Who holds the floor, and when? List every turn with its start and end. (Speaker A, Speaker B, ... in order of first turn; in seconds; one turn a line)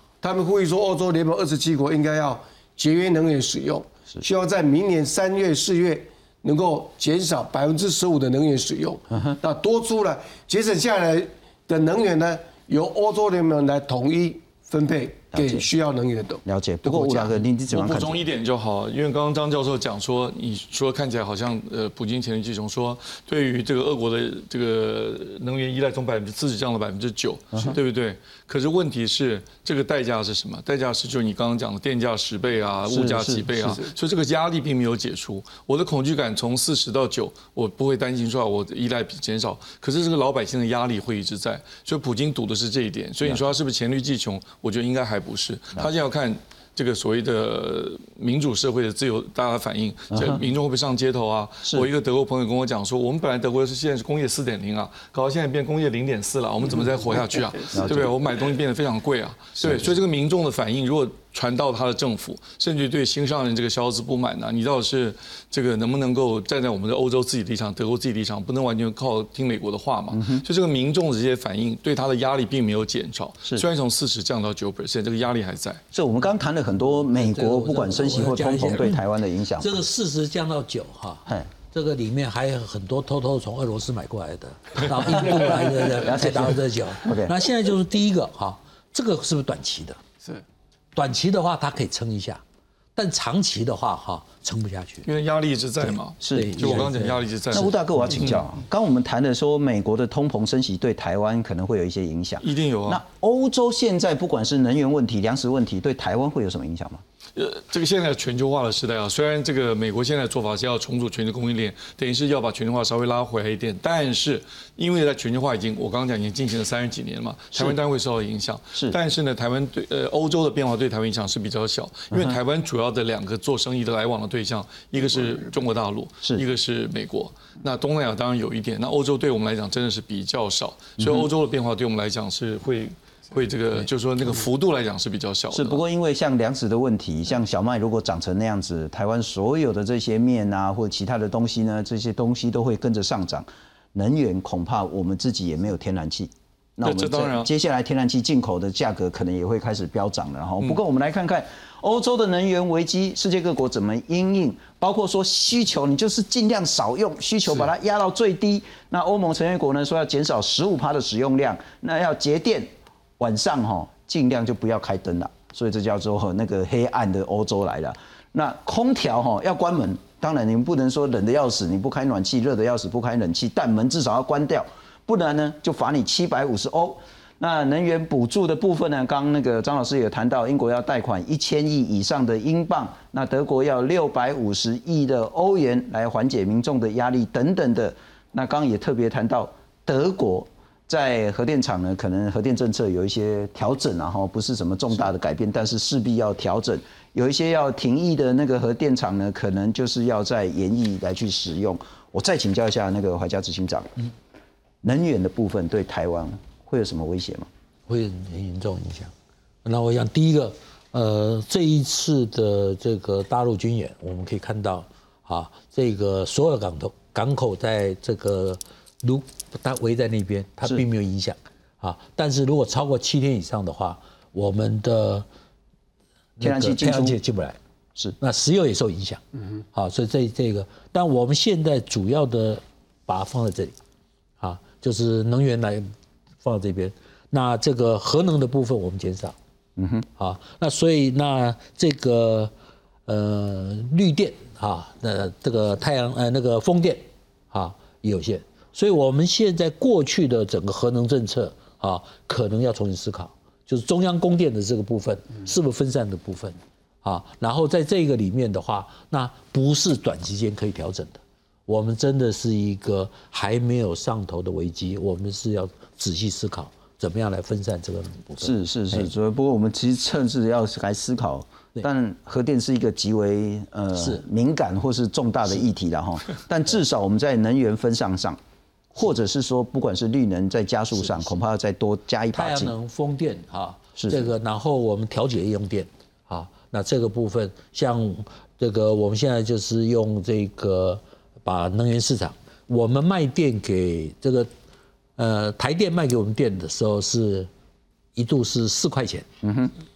Speaker A: 0.2-17.3
Speaker B: 15.3-15.7
Speaker B: 16.5-18.2
Speaker C: 17.7-75.8
Speaker B: 32.9-33.7
Speaker B: 50.1-50.4
Speaker A: 57.3-57.6
Speaker B: 57.8-58.1
Speaker B: 59.6-59.9
Speaker B: 70.1-70.4
Speaker B: 75.9-79.8
Speaker D: 77.2-79.0
Speaker D: 79.6-90.0
Speaker B: 86.0-87.3
Speaker D: 91.0-92.4
Speaker D: 93.0-95.1
Speaker C: 95.1-98.4
Speaker B: 96.2-96.8
Speaker D: 96.3-97.2
Speaker B: 97.5-107.0
Speaker C: 102.4-103.0
Speaker C: 107.3-135.8
Speaker B: 131.0-131.3
Speaker B: 135.5-203.9
Speaker C: 146.8-147.5
Speaker B: 204.8-207.5
Speaker D: 207.9-209.1
Speaker D: 209.7-225.3
Speaker D: 226.4-227.6
Speaker B: 226.4-227.2
Speaker D: 228.2-233.8
Speaker D: 234.4-235.9
Speaker D: 236.4-239.4
Speaker B: 239.8-240.1
Speaker D: 240.2-242.5
Speaker D: 243.1-269.1
Speaker B: 268.4-278.4
Speaker D: 274.0-274.2
Speaker B: 278.9-282.7
Speaker D: 282.3-294.5
Speaker B: 284.0-284.3
Speaker D: 295.2-297.5
Speaker D: 298.1-299.3
Speaker B: 299.4-299.7